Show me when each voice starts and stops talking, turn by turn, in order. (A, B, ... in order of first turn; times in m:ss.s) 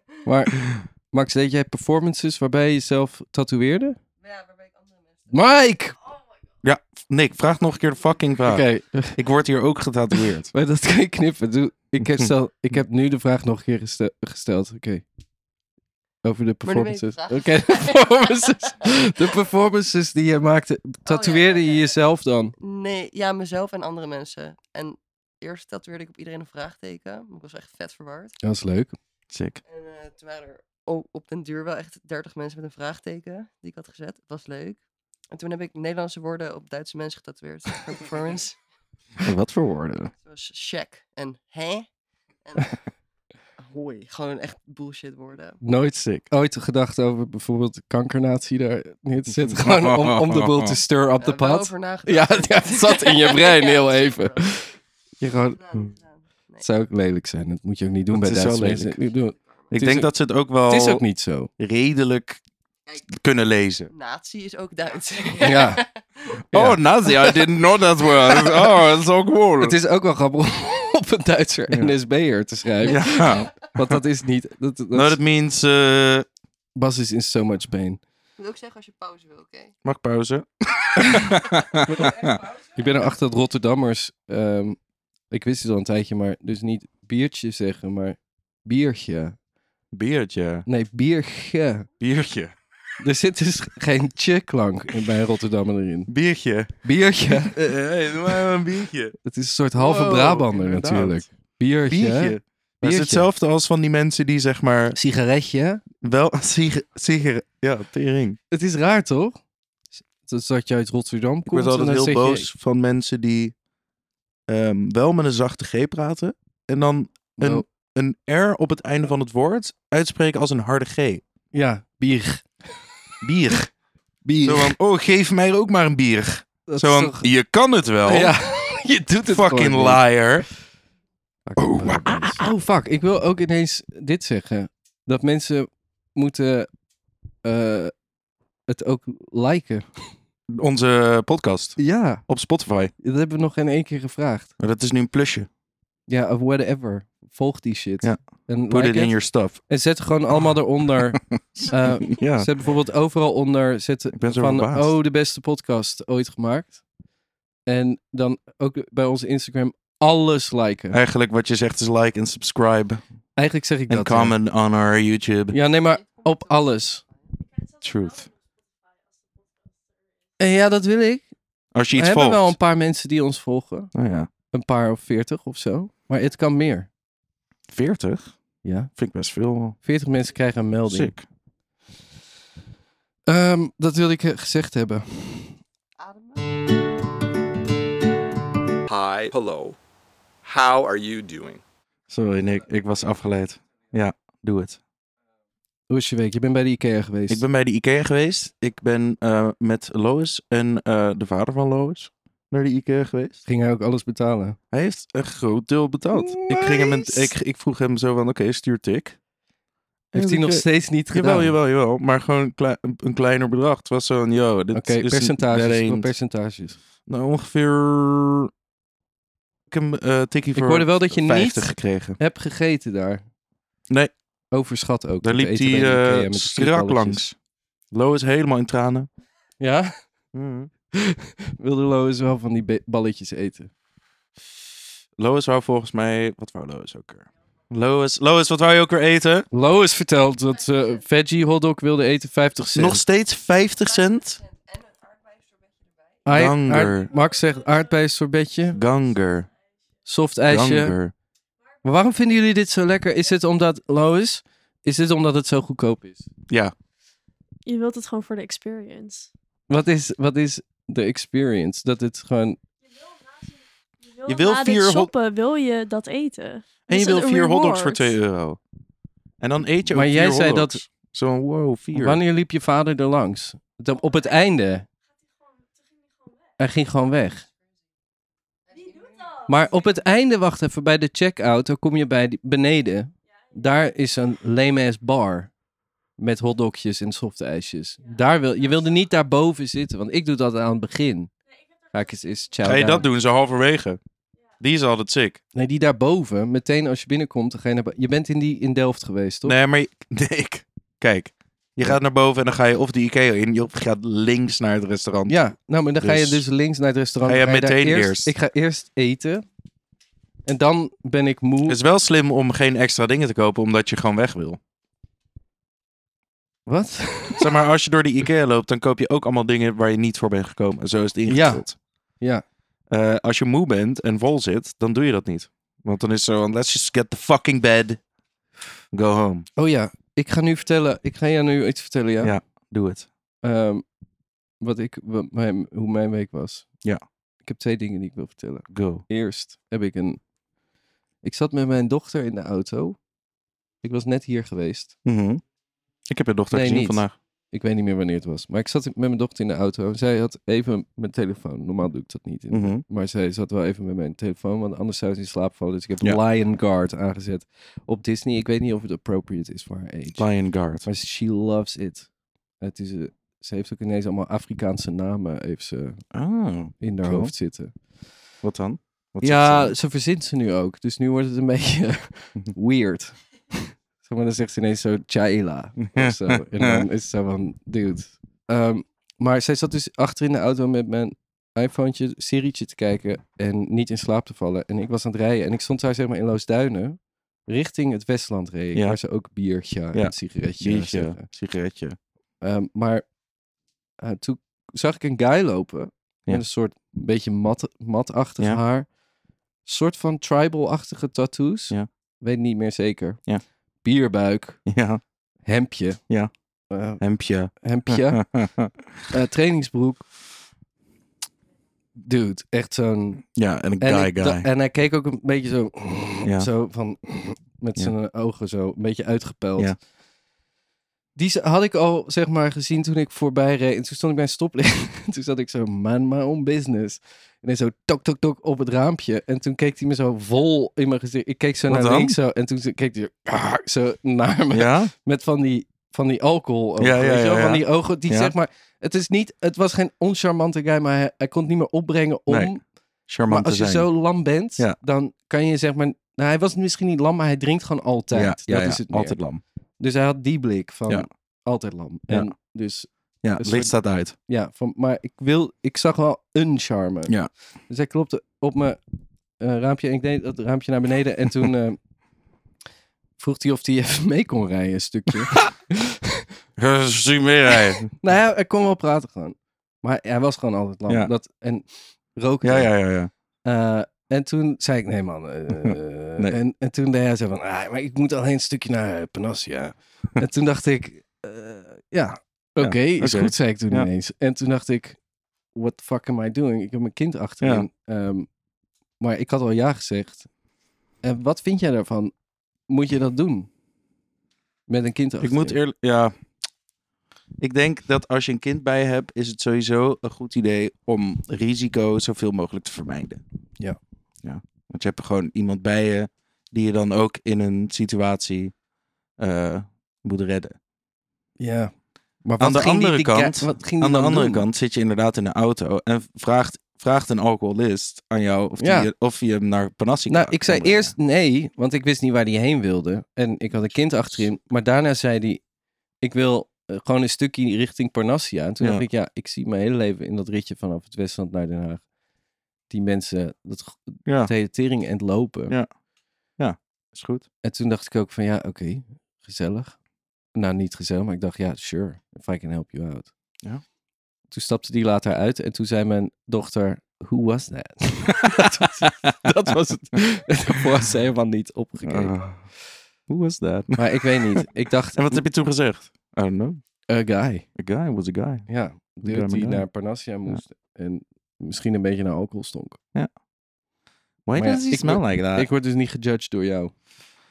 0:00.2-0:04.0 A
0:04.2-0:05.3 B
0:05.3-0:06.0 A
0:06.6-0:10.5 C
0:08.4-0:09.2 A
0:10.5-0:15.0 A
0:12.0-0:12.3 C
0:16.2-0:22.5 A
0:16.6-0:19.2 B
0:21.0-0:21.9 B
0:22.6-0:28.3 B
0:28.4-0:29.0 A
0:29.3-0:29.6 C
0:29.6-0:34.8 B
0:35.3-0:38.6 B
0:39.2-0:40.1 C
0:40.2-0:41.9 B
0:42.4-0:42.8 B
0:43.6-0:45.6 B
0:45.6-0:55.6 A
0:49.4-0:50.8 C
0:51.2-0:54.7 B
0:55.5-0:56.6 B
0:56.6-1:00.1 A
0:58.1-0:59.0 C
0:59.7-1:01.0 C
1:00.6-1:01.5 A
1:01.6-1:02.4 C
1:03.1-1:03.9 C
1:03.9-1:06.2 B
1:05.4-1:05.8 A
1:06.5-1:06.8 A
1:06.5-1:09.8 C
1:09.6-1:15.2 A
1:11.7-1:11.9 C
1:12.8-1:14.0 C
1:14.9-1:16.3 C
1:16.8-1:18.0 A
1:18.4-1:19.7 B
1:19.8-1:22.4 C
1:21.9-1:22.1 A
1:22.7-1:24.8 A
1:25.3-1:29.4 A
1:29.9-1:30.6 C
1:30.7-1:31.9 A
1:32.0-1:32.6 C
1:33.0-1:36.1 A
1:36.1-1:39.2 C
1:36.8-1:37.6 A
1:39.2-1:43.3 A
1:39.7-1:41.3 C
1:41.8-1:45.0 C
1:44.9-1:45.8 A
1:46.0-1:48.4 C
1:48.5-1:49.4 A
1:50.2-1:52.5 A
1:51.5-1:53.5 C
1:54.5-2:01.2 C
1:57.4-1:57.6 A
2:01.5-2:02.8 A
2:03.2-2:03.7 C
2:04.2-2:04.8 A
2:04.4-2:08.4 C
2:06.7-2:07.3 A
2:08.0-2:10.0 A
2:09.2-2:10.5 C
2:11.5-2:16.7 A
2:11.6-2:12.5 C
2:17.4-2:17.9 A
2:18.7-2:20.0 A
2:20.5-2:22.9 C
2:21.8-2:22.2 A
2:23.0-2:24.5 A
2:24.6-2:25.5 C
2:26.1-2:36.8 A
2:28.0-2:29.6 C
2:31.1-2:32.5 C
2:34.1-2:34.9 C
2:37.7-2:41.0 A
2:40.9-2:43.0 C
2:43.4-2:44.4 A
2:43.9-2:45.6 C
2:45.5-2:47.0 A
2:45.7-2:47.3 B
2:47.8-2:48.3 C
2:50.4-2:51.3 A
2:51.7-2:52.6 C
2:51.9-2:53.9 A
2:53.9-2:54.3 C
2:54.5-2:56.9 A
2:57.7-2:58.3 C
2:58.6-2:58.9 A
2:59.0-2:59.8 C
2:59.8-3:01.1 A
3:00.9-3:01.2 C
3:03.3-3:05.6 A
3:06.0-3:06.5 B
3:08.9-3:09.8 D
3:10.4-3:11.6 D
3:12.1-3:14.8 C
3:15.9-3:17.4 A
3:17.3-3:23.4 C
3:23.4-3:24.6 A
3:24.7-3:29.2 C
3:26.1-3:27.3 A
3:30.1-3:36.1 C
3:30.1-3:31.6 A
3:34.7-3:36.8 A
3:37.1-3:38.5 C
3:39.7-3:42.2 C
3:40.5-3:43.2 A
3:44.5-3:47.2 A
3:45.2-3:47.4 C
3:47.9-3:49.1 C
3:49.6-3:50.0 A
3:50.3-3:50.7 C
3:50.9-3:53.7 A
3:55.2-3:59.5 C
3:59.5-4:03.0 A
4:02.7-4:04.4 C
4:03.8-4:06.2 B
4:06.2-4:08.8 A
4:06.3-4:07.1 C
4:08.7-4:09.5 C
4:10.0-4:11.0 A
4:10.5-4:11.1 C
4:11.8-4:16.3 A
4:16.5-4:16.7 C
4:17.6-4:19.3 E
4:19.7-4:22.6 A
4:24.1-4:28.1 E
4:24.2-4:25.1 C
4:26.9-4:28.6 C
4:29.4-4:32.2 C
4:29.9-4:30.8 A
4:31.9-4:34.9 A
4:36.6-4:37.4 A
4:38.7-4:39.4 B
4:39.4-4:45.5 A
4:46.2-4:51.3 A
4:51.9-4:53.1 A
4:52.6-4:54.0 C
4:54.6-4:55.4 C
4:55.5-4:59.6 A
4:59.4-5:05.4 C
5:05.3-5:09.4 A
5:06.0-5:06.5 C
5:07.2-5:08.3 C
5:10.4-5:11.8 A
5:11.7-5:14.6 C
5:16.7-5:17.5 A
5:17.4-5:21.8 C
5:21.3-5:22.4 A
5:22.9-5:28.0 C
5:28.9-5:29.4 C
5:29.6-5:32.4 A
5:32.2-5:33.1 C
5:33.4-5:33.8 A
5:34.6-5:36.7 A
5:37.4-5:40.2 A
5:38.7-5:39.0 C
5:41.2-5:43.0 A
5:43.8-5:44.9 A
5:45.0-5:45.4 C
5:46.1-5:47.2 C
5:46.5-6:00.3 A
5:52.5-5:52.8 C
6:00.2-6:00.9 C
6:00.8-6:06.0 A
6:06.1-6:07.3 C
6:06.8-6:07.7 A
6:08.4-6:09.7 C
6:09.2-6:31.2 A
6:15.8-6:16.8 C
6:28.7-6:29.0 C
6:29.9-6:32.0 C
6:32.4-6:33.1 A
6:34.0-6:38.9 A
6:39.6-6:43.2 A
6:43.8-6:44.6 A
6:44.6-6:45.0 C
6:45.4-6:46.0 A
6:46.7-6:48.3 A
6:47.0-6:48.8 C
6:49.1-6:50.1 A
6:52.0-6:53.3 A
6:53.3-6:54.5 C
6:53.8-6:59.8 A
6:56.2-6:56.5 C
7:01.2-7:22.6 A
7:11.7-7:12.2 C
7:14.5-7:14.9 C
7:16.8-7:18.3 C
7:22.3-7:22.5 C
7:23.1-7:23.9 C
7:23.3-7:29.2 A
7:28.1-7:29.4 C
7:29.8-7:37.2 A
7:33.2-7:34.1 C
7:37.7-7:38.8 A
7:39.4-7:41.8 A
7:43.2-7:46.2 A
7:46.6-7:47.9 C
7:47.9-7:52.7 A
7:52.4-7:53.1 C
7:53.4-8:05.0 A
7:55.5-7:56.4 C
8:02.6-8:03.9 C
8:05.5-8:08.3 A
8:07.4-8:07.7 C
8:09.0-8:10.3 A
8:11.0-8:12.1 A
8:12.7-8:13.5 A
8:14.7-8:15.6 A
8:15.2-8:16.1 C
8:17.4-8:23.2 C
8:24.2-8:28.6 C
8:29.2-8:30.6 C
8:31.4-8:34.4 A
8:32.4-8:40.9 C
8:38.6-8:38.9 A
8:40.1-8:45.4 A
8:46.0-8:51.8 A
8:52.7-8:55.6 A
8:54.0-8:54.3 C
8:56.4-8:57.3 C
8:57.4-8:59.8 A
9:00.3-9:03.1 A
9:04.3-9:12.3 A
9:08.2-9:08.9 C
9:11.8-9:12.6 C
9:13.1-9:16.6 C
9:13.8-9:15.2 A
9:16.9-9:17.4 A
9:17.5-9:18.5 C
9:18.5-9:22.8 A
9:19.0-9:19.7 C
9:24.2-9:25.5 C
9:24.4-9:26.7 A